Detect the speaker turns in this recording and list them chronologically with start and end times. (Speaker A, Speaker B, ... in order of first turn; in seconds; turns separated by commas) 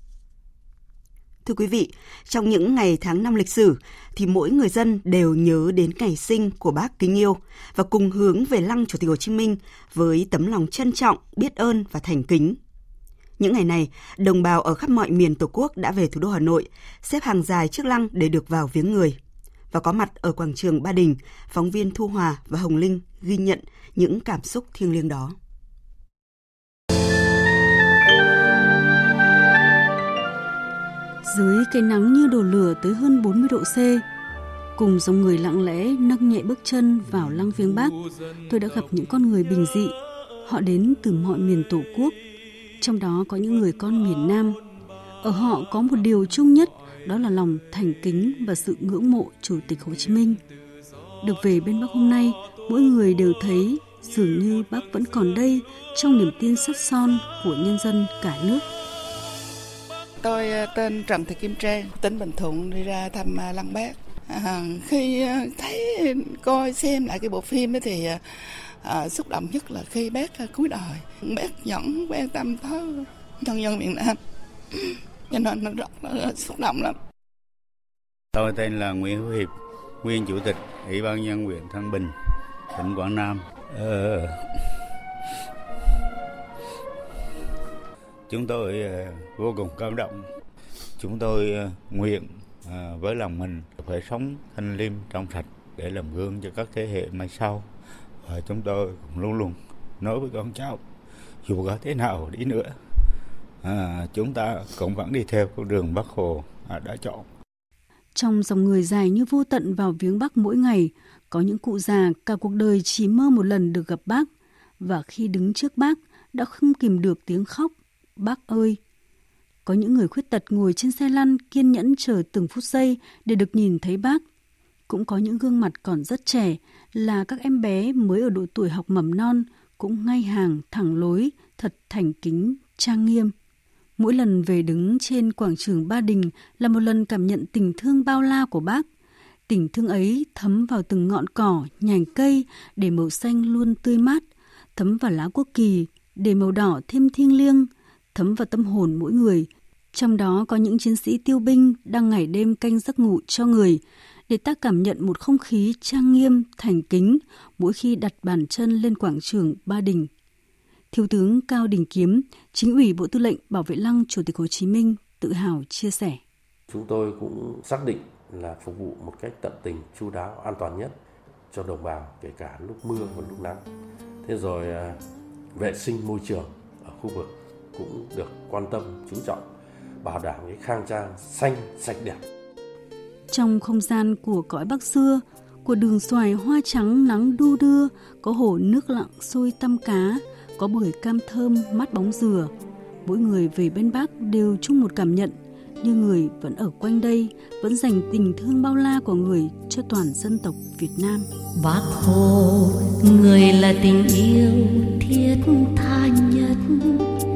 Speaker A: 1.4-12.6, Speaker A: 13.4-19.2, Speaker A: 19.7-25.4, Speaker B: 31.2-34.0, Speaker B: 34.8-38.0, Speaker B: 38.5-42.2, Speaker B: 42.8-44.6, Speaker B: 45.2-50.4, Speaker B: 51.2-58.6, Speaker C: 60.2-74.2, Speaker C: 75.3-77.0, Speaker D: 78.3-82.2, Speaker D: 82.7-84.5, Speaker D: 88.3-90.3, Speaker D: 91.0-97.7, Speaker D: 98.2-100.8, Speaker D: 101.4-102.8, Speaker D: 103.6-107.3, Speaker B: 108.2-114.3, Speaker B: 114.8-118.8, Speaker B: 119.7-124.2, Speaker B: 124.9-133.3, Speaker B: 134.0-138.9, Speaker B: 139.5-160.1, Speaker B: 160.9-166.2, Speaker E: 166.7-171.0, Speaker E: 171.5-173.6, Speaker E: 174.2-175.0, Speaker E: 175.6-179.5, Speaker E: 180.0-182.2, Speaker B: 183.3-192.5, Speaker B: 193.1-201.3, Speaker F: 201.6-207.0